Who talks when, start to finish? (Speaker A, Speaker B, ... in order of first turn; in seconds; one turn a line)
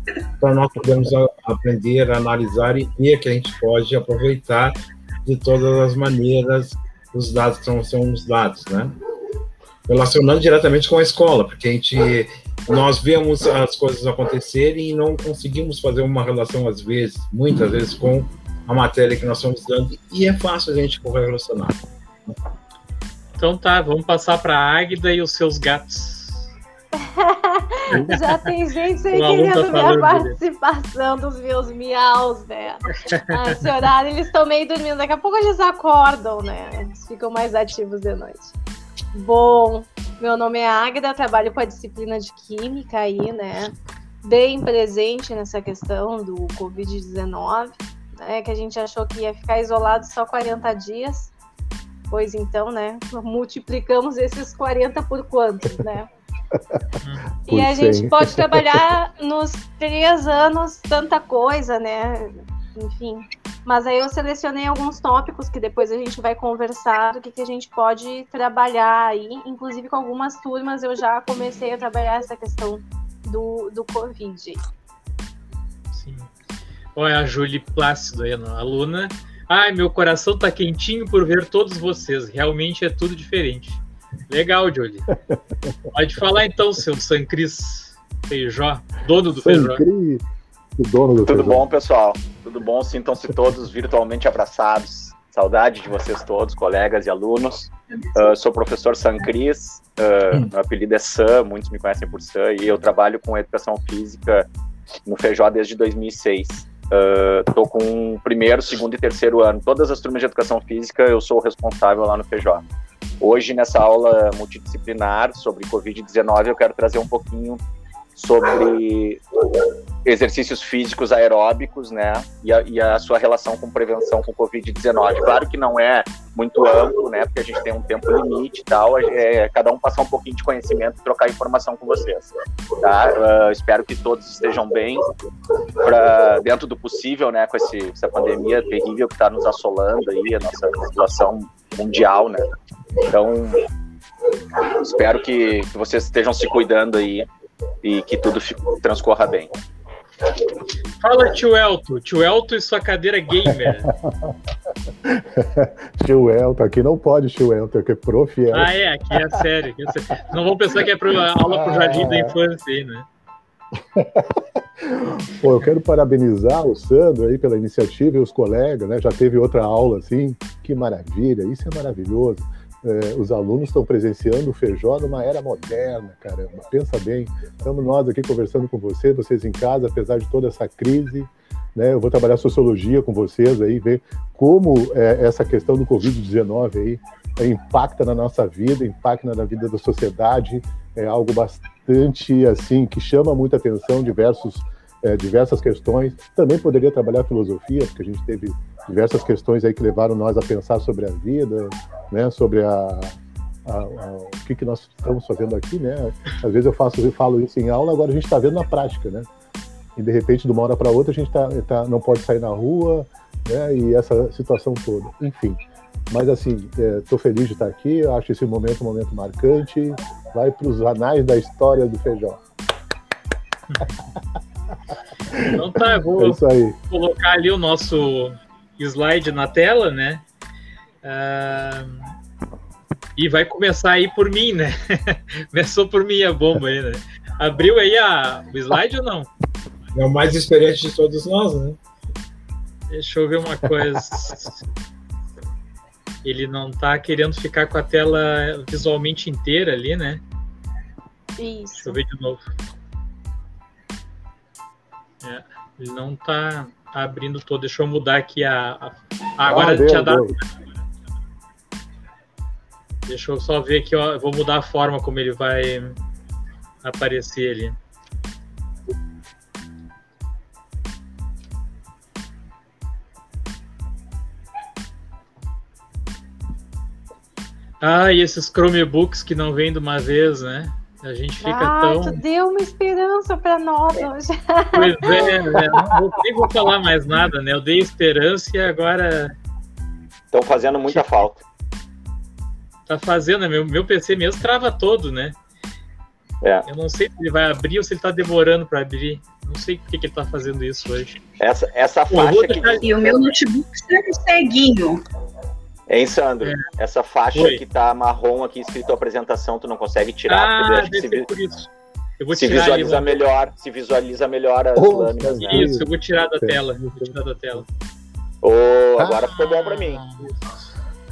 Speaker A: 0.4-8.9
Speaker A: 9.9-22.3
Speaker B: 23.4-26.5
Speaker C: 27.0-38.5
Speaker B: 27.9-28.5
Speaker B: 29.1-30.4
Speaker B: 33.1-33.6
Speaker C: 39.1-51.3
Speaker C: 52.1-56.1
Speaker D: 56.5-56.8
Speaker B: 57.0-57.3
Speaker D: 57.5-58.9
Speaker C: 57.5-74.6
Speaker B: 75.9-76.3
Speaker B: 76.9-85.1
Speaker D: 85.3-85.7
Speaker B: 85.9-89.8
Speaker D: 89.3-90.2
Speaker D: 90.8-91.6
Speaker E: 91.2-104.5
Speaker E: 105.1-112.6
Speaker E: 113.2-117.6
Speaker E: 118.2-119.2
Speaker E: 120.0-135.1
Speaker E: 135.8-142.4
Speaker E: 143.1-143.7
Speaker E: 144.8-147.3
Speaker E: 147.8-149.5
Speaker B: 151.0-153.9
Speaker D: 153.4-154.3
Speaker D: 155.0-159.3
Speaker B: 158.5-163.1
Speaker D: 161.5-162.3
Speaker D: 163.9-209.3
Speaker D: 209.9-215.6
Speaker D: 216.1-222.4
Speaker D: 225.3-226.8
Speaker B: 225.5-230.2
Speaker B: 231.0-232.1
Speaker B: 233.2-239.3
Speaker A: 239.9-241.8
Speaker B: 242.9-244.6
Speaker B: 246.2-250.2
Speaker C: 251.4-252.0
Speaker B: 251.8-252.4
Speaker B: 255.2-260.4
Speaker D: 259.4-260.4
Speaker B: 263.1-266.0
Speaker B: 266.8-267.8
Speaker B: 277.8-282.2
Speaker C: 281.4-285.3
Speaker B: 284.7-289.3
Speaker E: 290.3-291.4
Speaker B: 292.9-295.4
Speaker B: 296.6-301.2
Speaker E: 301.4-303.3
Speaker B: 302.1-302.9
Speaker F: 302.8-305.0
Speaker E: 305.9-311.3
Speaker B: 307.3-307.6
Speaker B: 310.3-313.1
Speaker E: 312.3-315.7
Speaker D: 314.7-317.6
Speaker B: 315.4-317.6
Speaker E: 318.4-320.0
Speaker D: 319.0-319.3
Speaker B: 319.3-320.6